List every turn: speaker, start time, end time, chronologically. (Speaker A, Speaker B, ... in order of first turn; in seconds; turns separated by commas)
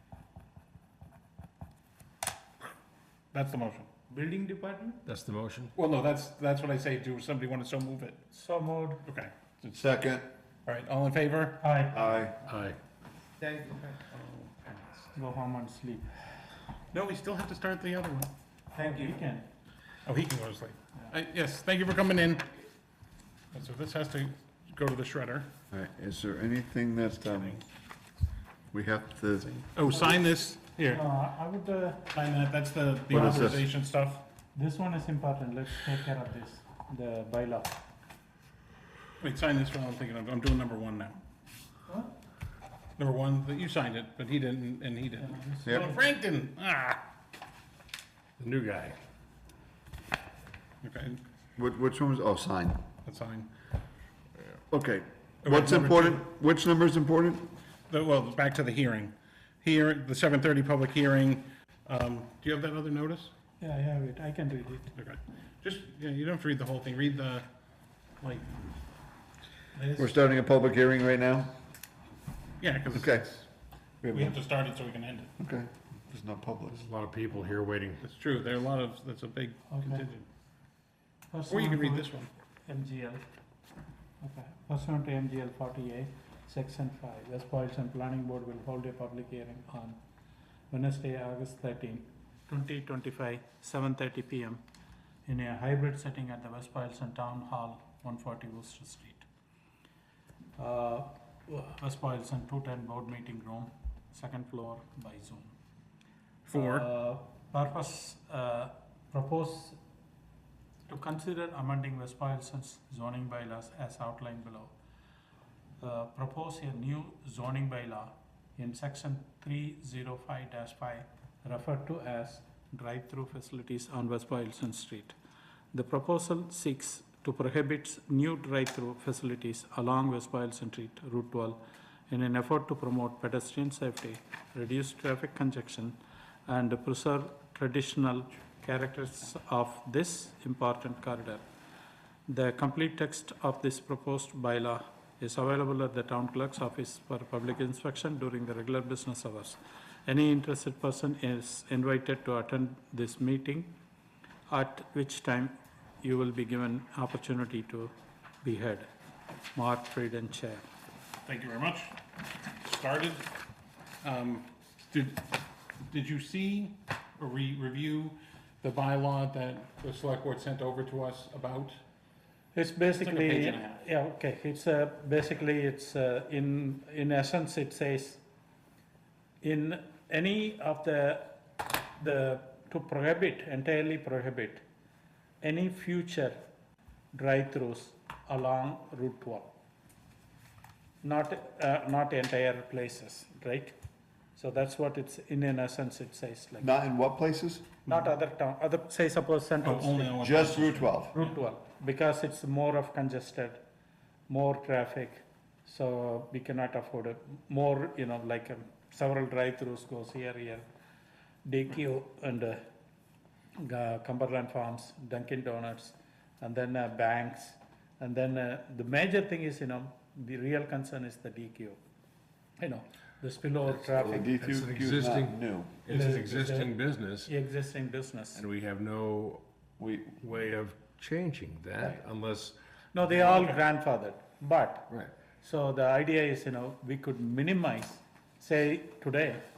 Speaker A: 3.3-3.9, Speaker B: 4.1-5.0, Speaker C: 5.0-5.7, Speaker A: 5.8-8.2, Speaker B: 8.3-9.0, Speaker A: 9.0-9.8, Speaker D: 9.7-10.3, Speaker A: 10.7-11.7, Speaker B: 11.6-12.0, Speaker D: 11.9-12.3, Speaker C: 12.4-12.8, Speaker A: 13.7-15.1, Speaker B: 15.1-16.1, Speaker A: 16.9-18.3, Speaker B: 18.7-19.4, Speaker A: 20.0-22.6, Speaker A: 23.5-25.5, Speaker D: 25.7-27.6, Speaker A: 27.2-27.6, Speaker D: 28.7-29.6, Speaker A: 29.5-31.0, Speaker B: 29.8-30.1, Speaker B: 30.8-32.1, Speaker A: 32.1-34.2, Speaker B: 33.1-33.6, Speaker D: 33.1-33.6, Speaker B: 34.5-37.8, Speaker A: 39.2-41.2, Speaker A: 43.0-47.0, Speaker B: 45.2-46.0, Speaker C: 48.4-49.0, Speaker A: 50.8-51.2, Speaker D: 51.6-52.8, Speaker A: 53.0-53.5, Speaker D: 54.7-57.5, Speaker A: 55.4-56.2, Speaker A: 57.9-63.3, Speaker B: 63.6-64.9, Speaker A: 64.9-67.5, Speaker A: 68.2-68.6, Speaker A: 69.7-70.1, Speaker D: 70.0-71.5, Speaker A: 72.6-73.5, Speaker D: 72.9-73.3, Speaker D: 74.0-74.3, Speaker A: 74.1-75.3, Speaker D: 75.4-76.8, Speaker C: 76.7-78.0, Speaker A: 78.0-80.3, Speaker B: 79.7-80.0, Speaker B: 81.3-83.2, Speaker A: 81.5-82.3, Speaker B: 84.2-90.0, Speaker B: 90.7-94.6, Speaker B: 95.2-99.2, Speaker B: 100.6-105.5, Speaker A: 106.4-106.9, Speaker B: 106.5-109.8, Speaker B: 110.9-114.7, Speaker B: 115.8-125.1, Speaker B: 125.7-141.4, Speaker B: 142.3-153.7, Speaker B: 154.5-157.9, Speaker B: 158.4-158.9, Speaker B: 159.5-160.6, Speaker A: 161.2-161.9, Speaker A: 162.6-163.3, Speaker A: 164.0-165.3, Speaker A: 165.9-171.8, Speaker B: 172.5-178.2, Speaker A: 173.0-173.8, Speaker B: 179.4-181.3, Speaker B: 181.9-184.6, Speaker B: 185.4-186.4, Speaker B: 187.1-189.5, Speaker B: 191.0-193.8, Speaker B: 194.3-196.7, Speaker D: 196.6-197.9, Speaker B: 197.9-203.6, Speaker A: 199.6-201.3, Speaker D: 200.2-201.1, Speaker B: 204.3-210.7, Speaker B: 211.4-212.6, Speaker B: 213.6-221.8, Speaker B: 222.6-224.4, Speaker D: 223.9-225.8, Speaker C: 224.4-227.3, Speaker B: 225.9-226.7, Speaker B: 227.2-228.4, Speaker C: 228.3-229.4, Speaker D: 229.8-230.2, Speaker C: 230.2-232.6, Speaker B: 232.9-239.4, Speaker A: 233.2-233.6